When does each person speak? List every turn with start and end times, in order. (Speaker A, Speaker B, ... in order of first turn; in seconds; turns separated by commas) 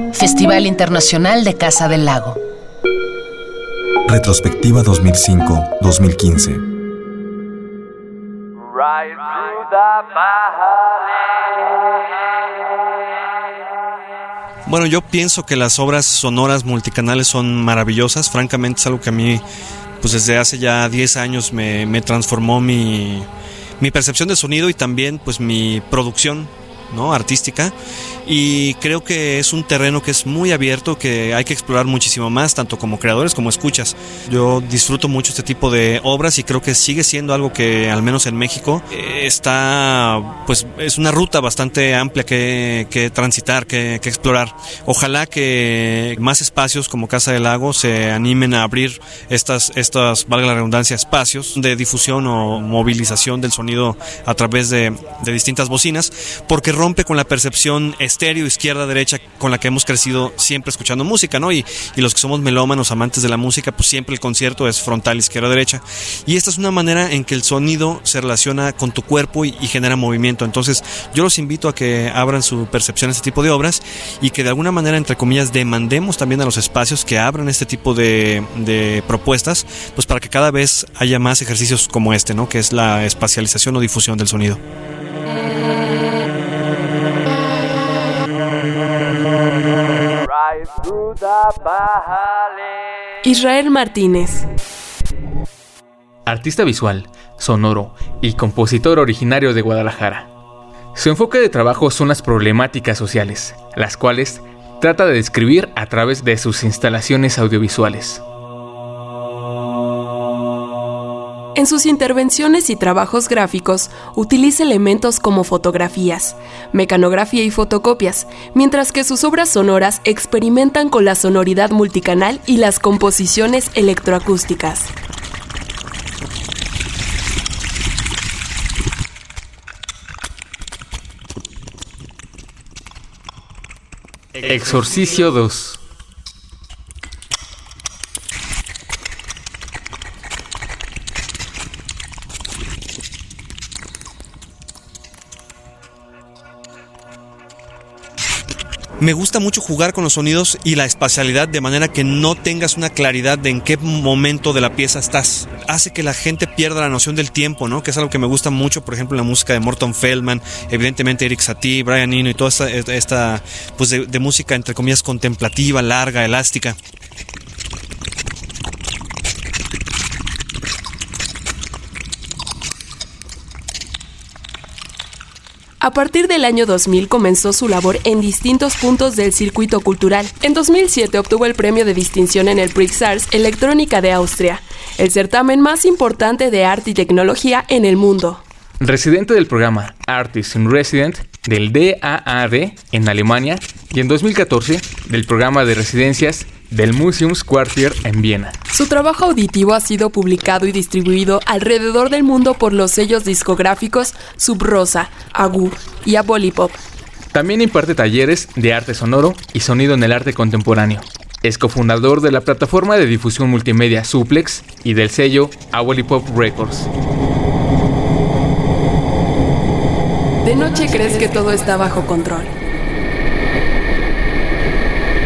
Speaker A: 0.1-2.4, Speaker B: 4.1-6.6, Speaker C: 14.7-19.4, Speaker C: 20.0-23.3, Speaker C: 23.8-27.7, Speaker C: 28.2-84.6, Speaker D: 93.2-94.5, Speaker E: 96.2-100.2, Speaker E: 100.9-108.2, Speaker D: 111.5-124.9, Speaker E: 134.4-135.8, Speaker C: 149.0-166.8, Speaker D: 175.8-188.4, Speaker E: 188.8-198.5, Speaker D: 198.7-206.8, Speaker E: 207.3-216.9, Speaker D: 220.4-222.5